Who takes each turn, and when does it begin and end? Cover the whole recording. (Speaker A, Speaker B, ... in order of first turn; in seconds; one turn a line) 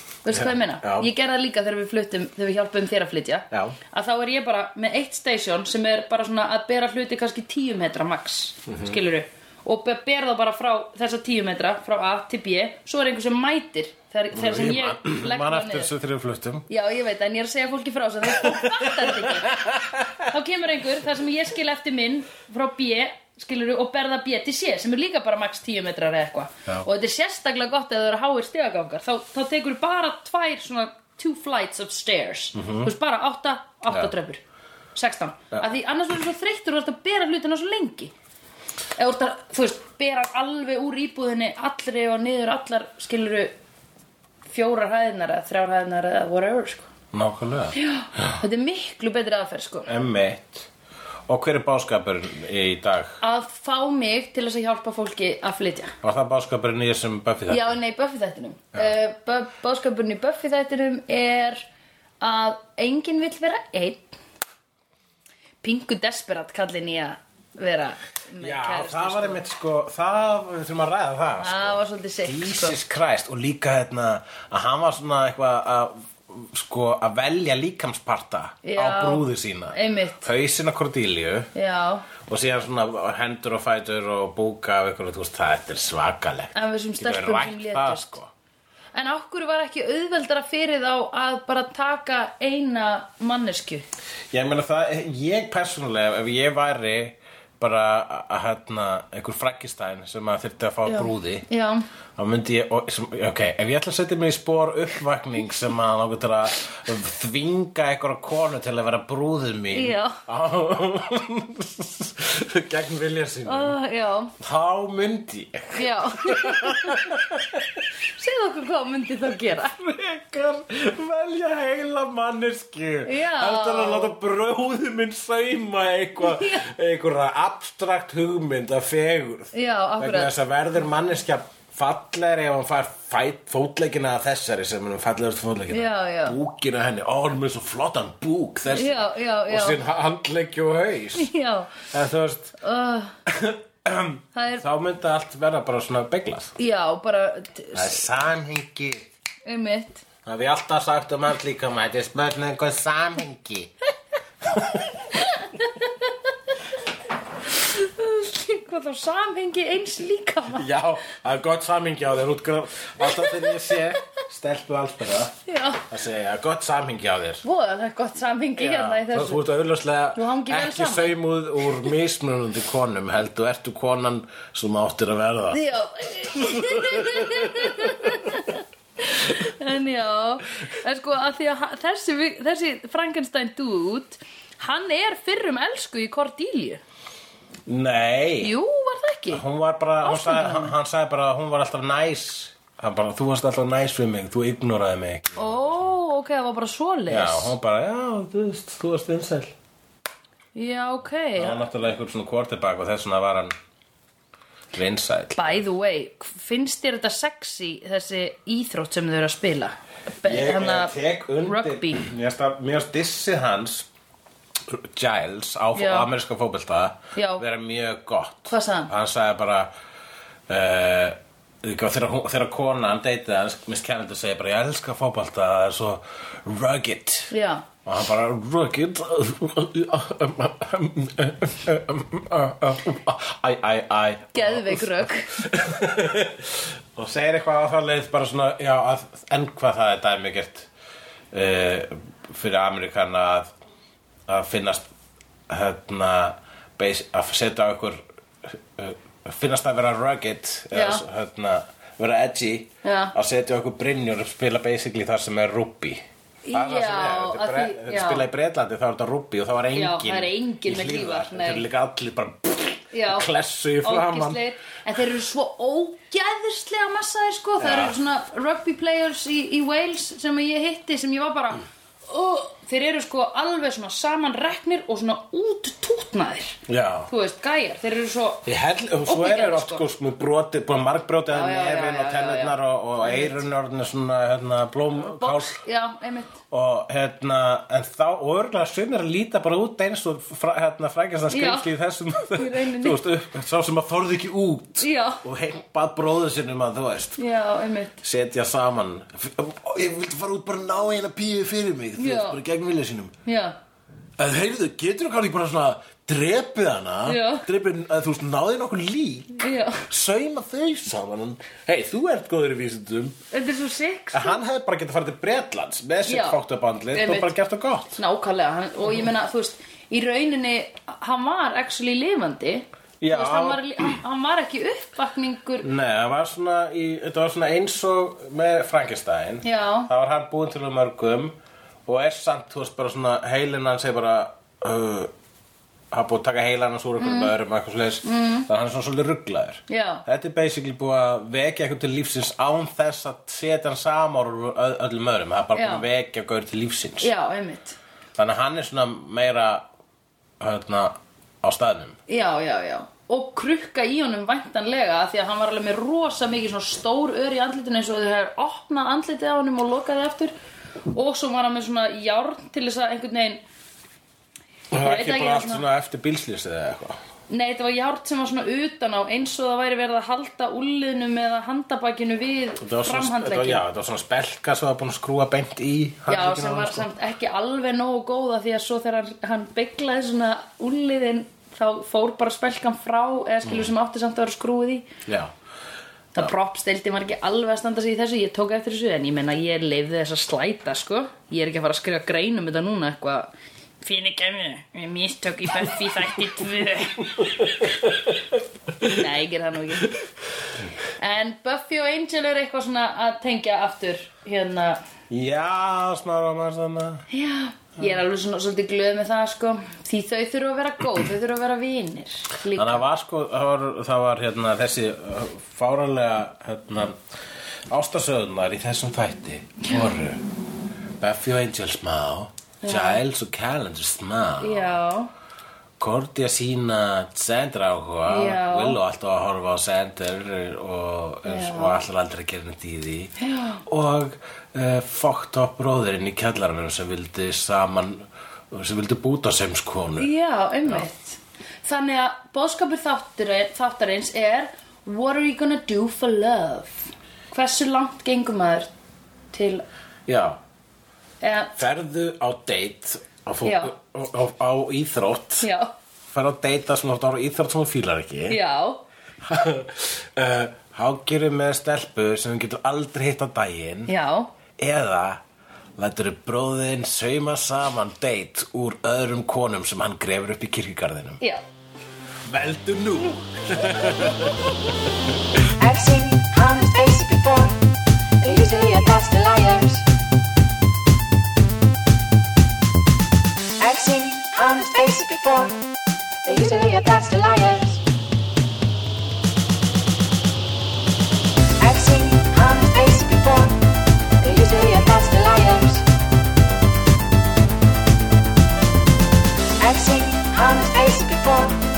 Speaker A: 0.2-15.9
Speaker B: 0.3-1.1
Speaker B: 3.5-3.8
Speaker B: 8.7-9.0
Speaker B: 14.3-16.7
Speaker A: 16.7-19.6
Speaker B: 18.4-20.2
Speaker A: 20.2-34.4
Speaker B: 32.5-32.9
Speaker A: 35.0-38.1
Speaker A: 39.0-43.5
Speaker A: 44.5-46.9
Speaker B: 47.1-48.4
Speaker A: 47.7-49.9
Speaker B: 49.9-50.7
Speaker B: 51.3-53.2
Speaker A: 53.2-55.9
Speaker B: 56.0-57.8
Speaker A: 57.5-61.6
Speaker A: 62.2-64.2
Speaker A: 65.6-69.4
Speaker B: 68.4-81.5
Speaker A: 71.4-72.8
Speaker A: 78.6-80.3
Speaker A: 81.5-82.1
Speaker B: 82.2-88.3
Speaker A: 86.5-88.2
Speaker A: 88.9-93.8
Speaker B: 94.3-101.5
Speaker A: 100.9-101.8
Speaker B: 102.2-113.8
Speaker A: 109.7-110.2
Speaker A: 113.5-114.3
Speaker B: 114.4-117.8
Speaker A: 115.7-117.2
Speaker A: 118.2-119.8
Speaker B: 119.7-141.3
Speaker A: 123.0-124.2
Speaker A: 126.2-126.7
Speaker A: 129.5-130.3
Speaker A: 135.7-136.4
Speaker A: 138.7-139.8
Speaker A: 141.2-141.8
Speaker B: 141.9-142.6
Speaker A: 142.6-143.1
Speaker B: 143.3-146.5
Speaker A: 144.3-144.7
Speaker A: 146.6-148.0
Speaker B: 147.7-149.1
Speaker A: 149.5-150.0
Speaker B: 150.2-153.7
Speaker B: 154.4-155.1
Speaker A: 155.1-156.2
Speaker A: 157.5-160.7
Speaker B: 160.5-167.4
Speaker A: 163.0-163.8
Speaker A: 165.5-165.9
Speaker A: 167.4-169.4
Speaker B: 168.6-175.6
Speaker A: 170.2-171.2
Speaker A: 175.5-186.8
Speaker B: 176.3-178.3
Speaker B: 187.7-188.6
Speaker A: 188.4-189.4
Speaker B: 189.3-195.9
Speaker A: 190.0-190.7
Speaker A: 195.4-197.5
Speaker B: 197.1-199.6
Speaker A: 200.6-201.6
Speaker B: 201.4-203.5
Speaker B: 204.7-205.6
Speaker A: 205.4-212.1
Speaker B: 210.2-213.9
Speaker B: 214.7-219.7
Speaker A: 215.7-216.1
Speaker A: 217.2-217.4
Speaker A: 218.5-218.9
Speaker B: 220.5-227.3
Speaker A: 227.3-227.7
Speaker B: 227.8-240.7
Speaker A: 234.3-235.4
Speaker B: 241.3-243.5
Speaker B: 244.3-244.9
Speaker B: 245.5-264.4
Speaker A: 250.7-251.0
Speaker A: 252.8-253.2
Speaker A: 256.4-258.2
Speaker A: 259.7-261.6
Speaker A: 262.9-263.3
Speaker A: 263.8-278.5
Speaker B: 267.6-268.0
Speaker B: 276.7-277.1
Speaker B: 278.4-285.6
Speaker A: 279.1-279.8
Speaker A: 281.3-283.4
Speaker A: 285.0-286.4
Speaker B: 286.5-297.2
Speaker A: 291.3-291.7
Speaker A: 292.3-293.0
Speaker A: 294.8-295.2
Speaker A: 297.2-298.0
Speaker B: 298.0-303.1
Speaker A: 302.0-302.4
Speaker A: 303.3-303.6
Speaker B: 304.2-313.2
Speaker A: 307.1-307.5
Speaker A: 309.4-309.9
Speaker A: 313.3-314.4
Speaker B: 314.1-318.0
Speaker A: 316.1-316.4
Speaker A: 316.9-317.3
Speaker A: 317.9-325.7
Speaker B: 323.0-324.0
Speaker B: 325.6-335.1
Speaker A: 329.4-329.9
Speaker B: 335.9-347.1
Speaker A: 337.0-337.3
Speaker A: 338.0-338.5
Speaker A: 339.7-340.0
Speaker A: 345.5-345.8
Speaker A: 347.0-347.8
Speaker B: 348.2-349.6
Speaker B: 350.4-352.0
Speaker A: 352.1-360.3
Speaker A: 360.9-363.4
Speaker B: 364.7-367.0
Speaker A: 364.8-365.6
Speaker A: 367.3-373.6
Speaker B: 372.6-376.9
Speaker A: 376.1-384.9
Speaker B: 383.4-383.7
Speaker B: 385.1-385.3
Speaker A: 386.1-397.7
Speaker B: 397.2-398.2
Speaker A: 398.8-400.0
Speaker A: 401.0-404.8
Speaker B: 405.1-407.1
Speaker A: 407.1-412.9
Speaker B: 412.5-417.0
Speaker B: 417.7-420.2
Speaker B: 421.0-424.8
Speaker A: 422.6-423.0
Speaker A: 424.4-425.1
Speaker B: 425.8-433.1
Speaker A: 428.1-428.8
Speaker A: 431.2-431.8
Speaker A: 433.2-433.6
Speaker B: 433.7-440.1
Speaker A: 440.0-448.7
Speaker A: 449.3-449.6
Speaker B: 450.1-450.4
Speaker A: 451.2-451.5
Speaker B: 451.6-455.5
Speaker A: 453.4-453.7
Speaker A: 455.4-455.7
Speaker B: 456.1-458.4
Speaker A: 458.3-458.8
Speaker B: 459.2-463.9
Speaker A: 463.9-464.3
Speaker B: 464.6-465.2
Speaker B: 465.8-471.2
Speaker B: 472.2-475.7
Speaker A: 475.7-477.5
Speaker C: 476.4-477.5
Speaker A: 478.2-479.8
Speaker C: 483.6-485.5
Speaker A: 484.4-485.5
Speaker A: 486.3-487.8
Speaker C: 491.7-493.5
Speaker A: 491.8-493.5
Speaker A: 494.2-495.8
Speaker A: 499.6-501.5
Speaker C: 499.7-501.5